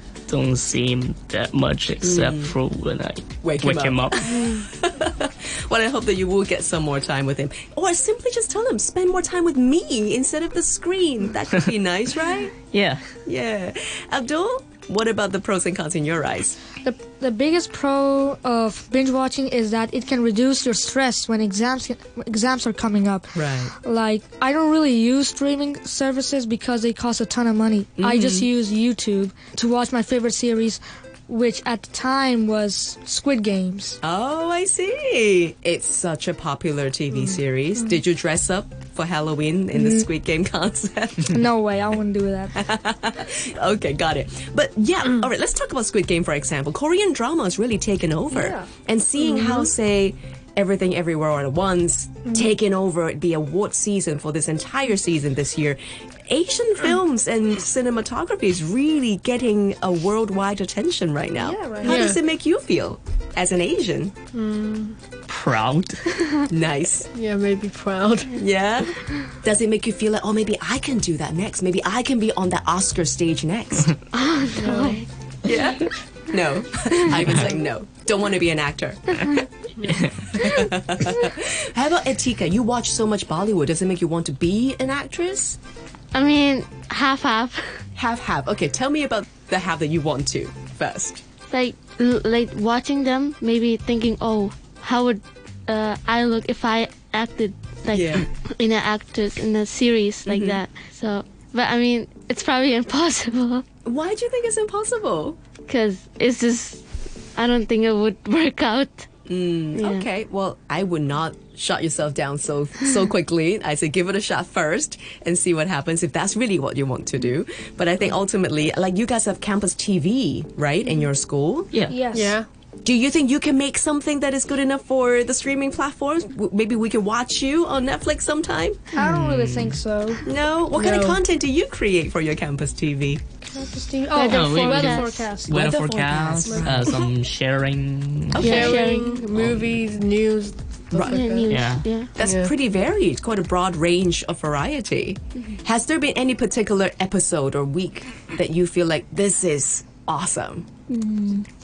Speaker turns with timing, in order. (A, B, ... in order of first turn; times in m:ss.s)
0:00.3-0:04.6 A
0:02.0-0:02.5 B
0:03.4-0:12.5 B
0:12.7-0:13.0 A
0:13.2-0:16.6 B
0:16.8-0:34.0 C
0:23.3-0:23.7 B
0:28.0-0:28.5 B
0:34.0-0:41.4 B
0:39.7-0:40.1 C
0:41.3-0:42.6 C
0:42.5-1:04.1 B
0:49.2-0:49.7 D
1:01.4-1:02.0 C
1:01.8-1:02.2 D
1:04.3-1:05.0 D
1:05.3-1:06.1 A
1:06.5-1:07.1 B
1:07.1-1:08.4 D
1:08.3-1:13.9 B
1:14.1-1:15.0 E
1:14.5-1:15.1 D
1:15.4-1:19.4 B
1:17.1-1:17.5 A
1:19.8-1:20.1 D
1:19.8-1:20.5 A
1:20.3-1:25.6 B
1:26.1-1:27.6 E
1:28.0-1:31.2 B
1:31.5-1:43.6 E
1:37.9-1:38.2 B
1:40.2-1:40.6 B
1:43.8-1:45.4 B
1:45.7-1:49.1 E
1:49.3-2:01.7 B
2:01.7-2:02.0 A
2:01.9-2:02.3 C
2:02.1-2:02.5 D
2:02.8-2:08.9 B
2:08.9-2:10.2 C
2:09.0-2:09.8 A
2:10.2-2:13.2 B
2:10.7-2:11.2 D
2:13.4-2:15.6 C
2:13.7-2:15.3 D
2:14.2-2:15.1 E
2:14.3-2:19.8 A
2:15.5-2:17.0 B
2:16.4-2:17.0 D
2:18.3-2:18.8 B
2:18.4-2:19.1 E
2:18.4-2:21.5 D
2:20.9-2:21.2 B
2:21.1-2:22.1 E
2:21.5-2:21.8 A
2:22.2-2:30.7 B
2:22.2-2:22.5 D
2:30.9-2:31.4 C